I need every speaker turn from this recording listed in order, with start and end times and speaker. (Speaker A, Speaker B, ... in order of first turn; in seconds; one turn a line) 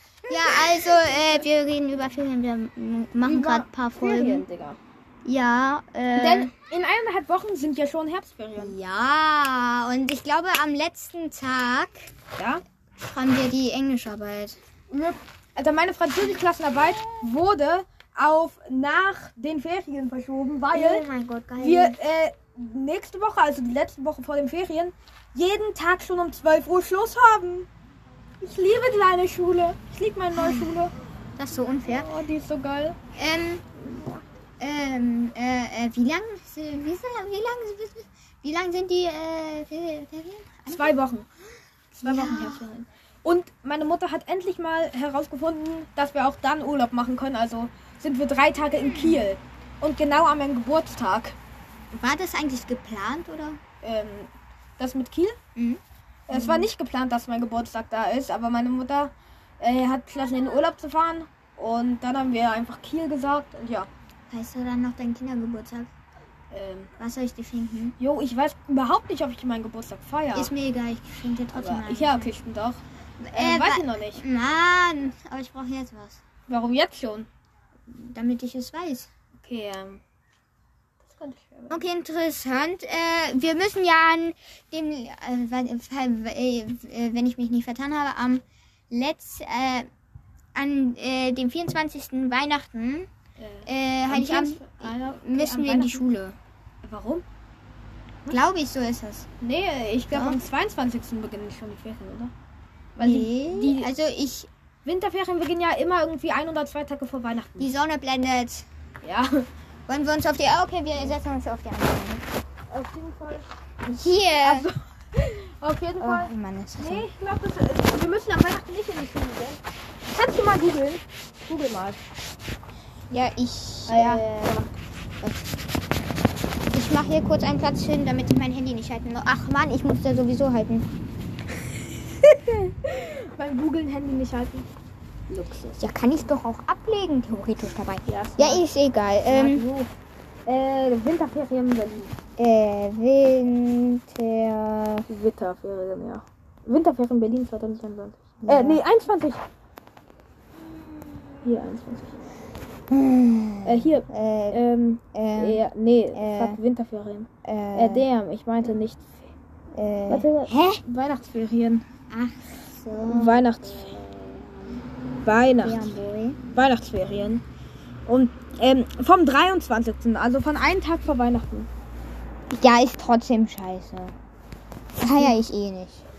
Speaker A: 0.3-1.5
Speaker B: 0.3-4.4
Speaker A: 3.2-4.8
Speaker B: 5.2-6.5
Speaker A: 6.2-8.8
Speaker B: 8.6-12.1
Speaker A: 12.4-12.6
Speaker B: 13.0-14.6
Speaker A: 14.9-21.1
Speaker B: 20.7-22.0
Speaker A: 21.6-27.7
Speaker A: 28.4-30.9
Speaker B: 30.3-30.8
Speaker B: 31.4-32.1
Speaker A: 31.9-33.0
Speaker B: 33.2-33.6
Speaker A: 33.8-34.2
Speaker B: 34.6-41.0
Speaker A: 40.7-41.3
Speaker A: 41.9-51.4
Speaker B: 42.0-42.7
Speaker B: 48.8-49.3
Speaker B: 51.9-53.6
Speaker A: 53.8-55.4
Speaker B: 55.6-56.7
Speaker A: 56.3-63.9
Speaker B: 64.3-65.9
Speaker A: 66.5-66.9
Speaker B: 67.0-68.0
Speaker A: 68.0-70.5
Speaker B: 70.3-72.3
Speaker A: 71.5-74.2
Speaker B: 73.2-76.2
Speaker A: 76.5-77.3
Speaker B: 77.9-79.1
Speaker A: 79.4-80.0
Speaker A: 81.0-81.8
Speaker B: 81.7-89.9
Speaker B: 90.5-93.1
Speaker A: 93.4-96.1
Speaker B: 93.7-96.4
Speaker A: 96.8-97.2
Speaker B: 98.3-99.3
Speaker A: 99.4-102.3
Speaker B: 100.1-100.4
Speaker A: 103.0-103.9
Speaker B: 103.0-104.5
Speaker A: 104.8-107.7
Speaker B: 107.6-108.7
Speaker A: 109.0-109.5
Speaker B: 109.9-112.2
Speaker A: 112.7-122.1
Speaker B: 113.9-114.7
Speaker B: 116.0-117.1
Speaker B: 123.1-124.6
Speaker A: 123.9-124.7
Speaker B: 125.2-125.5
Speaker B: 126.7-130.9
Speaker A: 132.1-134.7
Speaker A: 135.3-135.8
Speaker B: 135.8-139.6
Speaker A: 138.1-138.7
Speaker A: 139.3-139.9
Speaker A: 140.5-142.1
Speaker B: 142.4-145.1
Speaker A: 145.1-149.4
Speaker B: 148.4-148.8
Speaker A: 151.4-152.2
Speaker B: 152.9-154.6
Speaker A: 153.7-159.3
Speaker B: 155.1-155.6
Speaker B: 156.2-156.6
Speaker B: 157.4-158.1
Speaker B: 159.8-160.8
Speaker A: 160.1-161.9
Speaker B: 162.1-164.4
Speaker A: 163.0-164.1
Speaker A: 165.2-167.4
Speaker B: 165.6-166.4
Speaker A: 168.1-171.7
Speaker B: 172.5-174.2
Speaker B: 175.0-176.0
Speaker A: 175.0-175.4